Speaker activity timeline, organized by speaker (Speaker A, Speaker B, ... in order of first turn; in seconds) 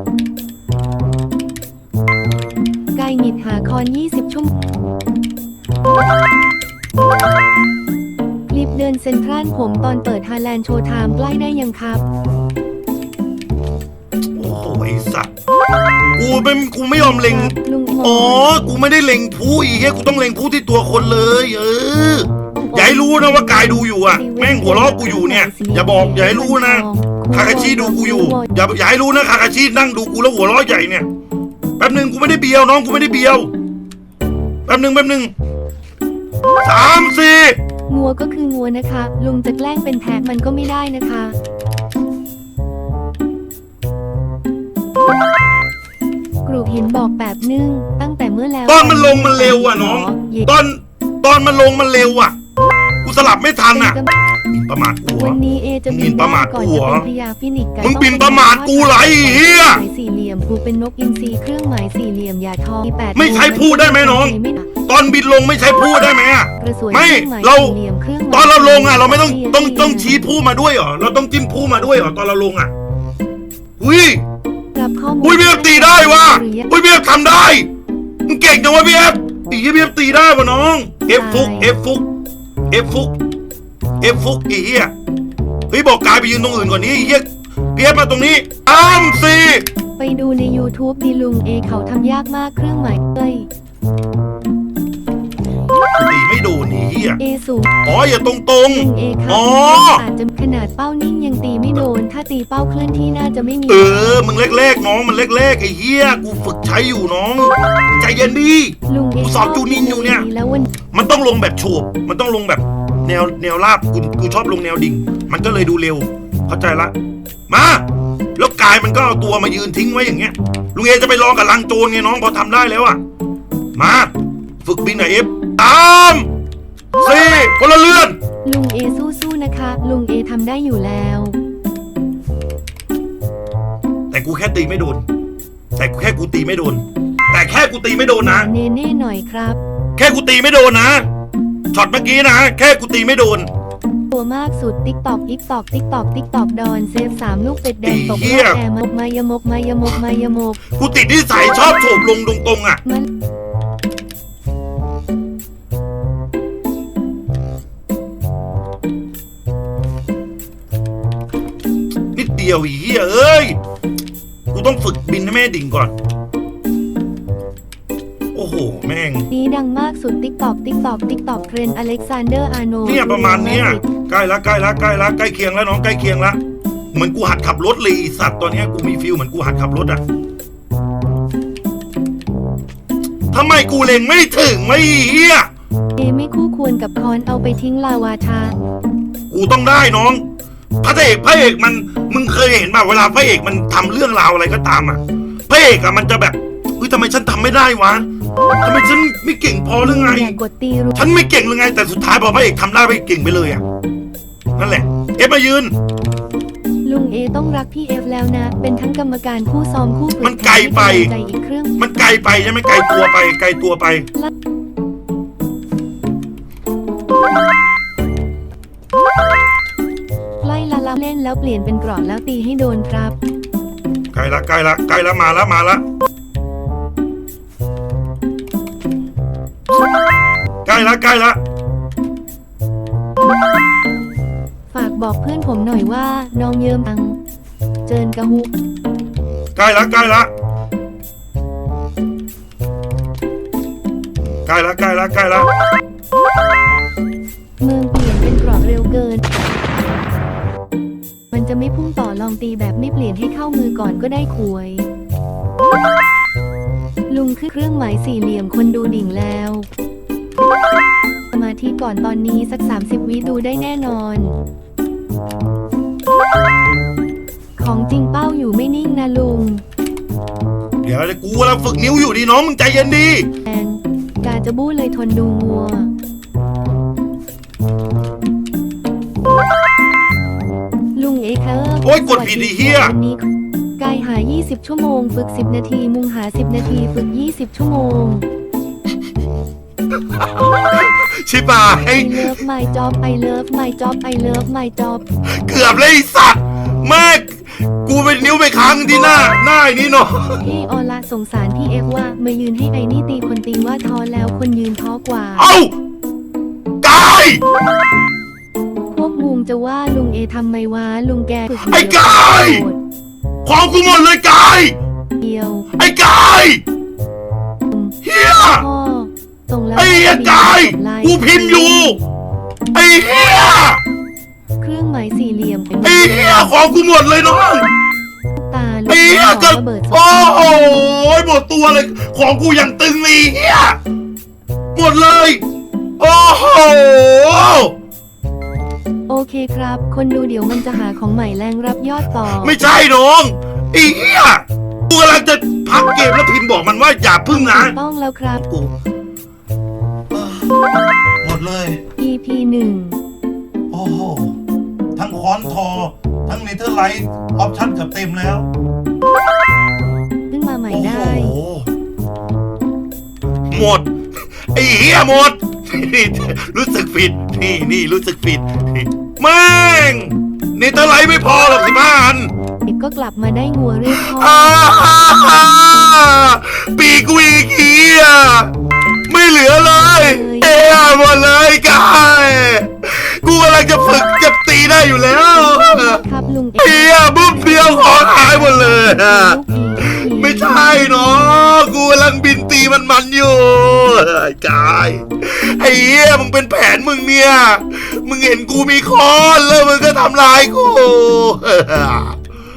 Speaker A: 2.9-4.5, 8.5-12.1, 17.0-18.7, 22.6-28.5, 37.9-41.4, 46.5-50.5, 53.7-54.1, 55.2-64.7, 66.6-70.2, 74.7-76.7, 81.1-81.7, 90.0-93.5, 97.2-97.8, 98.7-104.2, 108.9-110.7, 128.4-131.4, 138.2-139.6, 144.1-150.6, 169.3-173.8, 186.0-188.6, 199.8-201.0, 206.8-211.9, 220.4-223.2, 234.7-237.2, 237.9-238.5, 247.6-249.3, 251.3-254.9, 257.1-259.7, 261.3-264.4, 267.6-269.6, 273.4-275.9, 280.9-283.3, 283.8-288.3, 291.9-295.0, 300.4-305.5, 308.9-312.8, 315.2-315.7, 317.7-322.0, 324.6-326.6, 328.4-330.0, 339.1-342.6, 347.3-348.4, 352.0-353.0, 360.3-361.4, 372.7-374.5, 379.9-380.6, 385.5-390.8
Speaker B: 14.3-15.3, 16.2-31.1, 31.8-33.5, 34.7-35.3, 36.6-37.6, 48.7-52.4, 53.0-54.0, 54.5-57.1, 57.8-59.8, 63.1-67.8, 68.3-72.7, 73.8-74.2, 75.2-77.7, 78.3-82.1, 82.7-83.1, 84.0-84.9, 85.7-89.7, 96.0-97.2, 97.8-100.0, 103.7-110.3, 110.9-116.9, 117.5-117.8, 118.4-123.0, 123.8-126.3, 127.0-128.2, 134.1-135.0, 135.8-138.5, 140.0-141.1, 141.7-143.5, 147.8-148.6, 150.8-152.8, 162.1-163.6, 164.5-165.9, 168.3-169.3, 172.8-176.4, 176.9-180.0, 183.3-185.5, 189.3-190.2, 190.8-198.1, 198.6-200.4, 200.9-203.6, 204.6-205.7, 210.2-211.1, 211.8-214.1, 224.1-225.8, 230.7-231.4, 239.6-240.3, 244.5-245.5, 270.8-273.3, 281.8-282.9, 290.1-292.4, 295.3-300.4, 305.4-305.7, 306.8-307.4, 311.6-312.7, 313.4-314.8, 315.8-316.6, 318.0-318.6, 319.8-322.0, 322.7-323.8, 325.8-327.7, 328.9-333.8, 334.8-335.4, 336.0-337.8, 342.2-347.8, 348.4-348.7, 350.1-350.5, 351.2-351.8, 353.7-354.4, 355.0-358.5, 360.7-361.7, 363.5-372.3, 373.9-378.5, 379.1-386.0, 386.6-402.2